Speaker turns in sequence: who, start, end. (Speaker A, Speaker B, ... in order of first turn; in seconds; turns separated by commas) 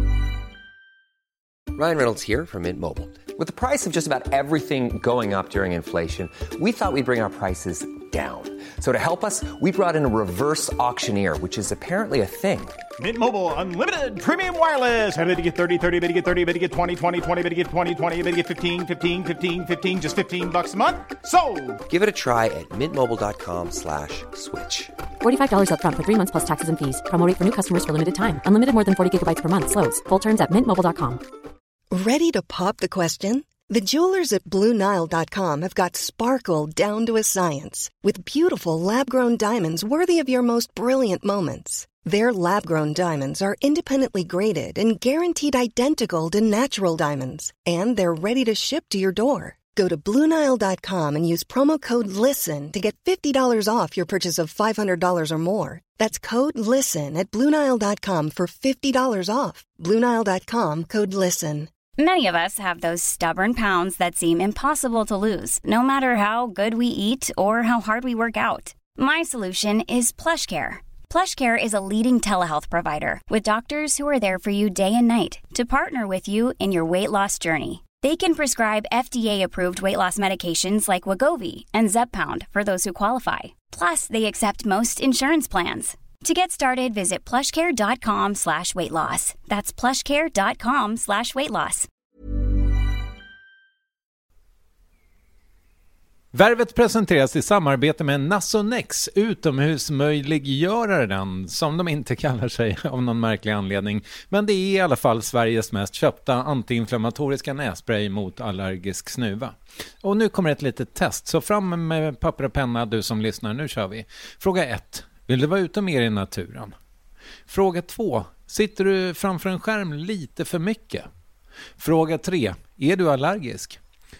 Speaker A: 1.7-12.8, Speaker B: 13.0-21.8, Speaker A: 21.9-24.9, Speaker C: 25.2-31.2, Speaker D: 31.9-61.7, Speaker E: 62.0-91.9, Speaker F: 96.3-116.7, Speaker F: 117.5-121.1, Speaker F: 121.8-123.8